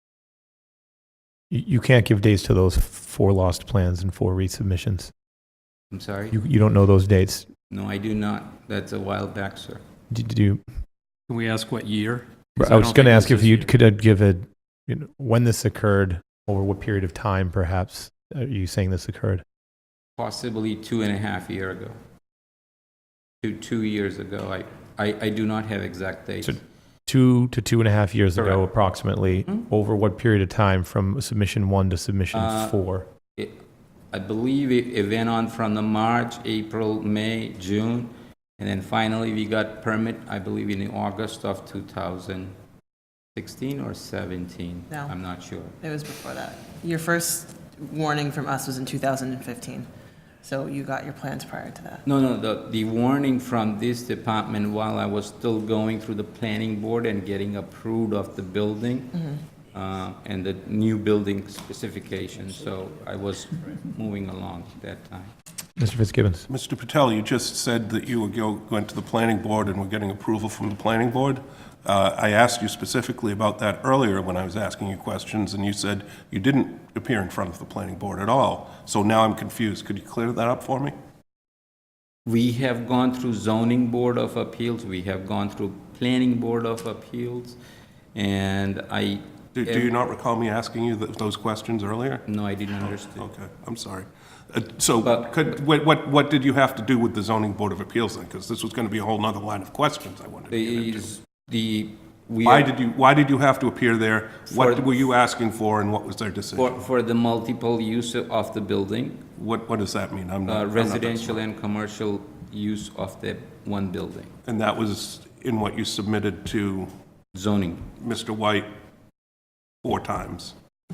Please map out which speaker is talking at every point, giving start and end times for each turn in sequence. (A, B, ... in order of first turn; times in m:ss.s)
0:01.5-0:05.1 A
0:05.9-0:06.4 B
0:06.3-0:07.5 A
0:07.7-0:09.8 B
0:10.1-0:10.6 A
0:11.3-0:13.7 C
0:12.6-0:19.4 A
0:20.2-0:21.9 B
0:23.4-0:26.6 B
0:26.4-0:33.1 A
0:28.4-0:28.6 B
0:32.3-0:32.8 B
0:34.1-0:42.5 B
0:43.4-0:45.8 B
0:45.8-0:49.9 D
0:50.4-0:52.0 D
0:52.0-0:59.2 B
0:59.7-1:05.3 B
1:05.8-1:06.5 A
1:06.5-1:20.9 E
1:22.3-1:27.6 B
1:28.2-1:29.9 B
1:29.6-1:32.2 E
1:32.3-1:33.3 B
1:33.2-1:41.1 E
1:35.0-1:35.5 B
1:40.5-1:42.7 B
1:42.4-1:46.8 E
1:44.5-1:45.1 B
1:46.6-1:49.2 B
1:49.4-1:51.4 E
1:50.5-1:54.3 B
1:54.5-1:56.9 E
1:57.3-1:57.9 B
1:58.0-1:58.7 E
1:59.8-2:00.5 E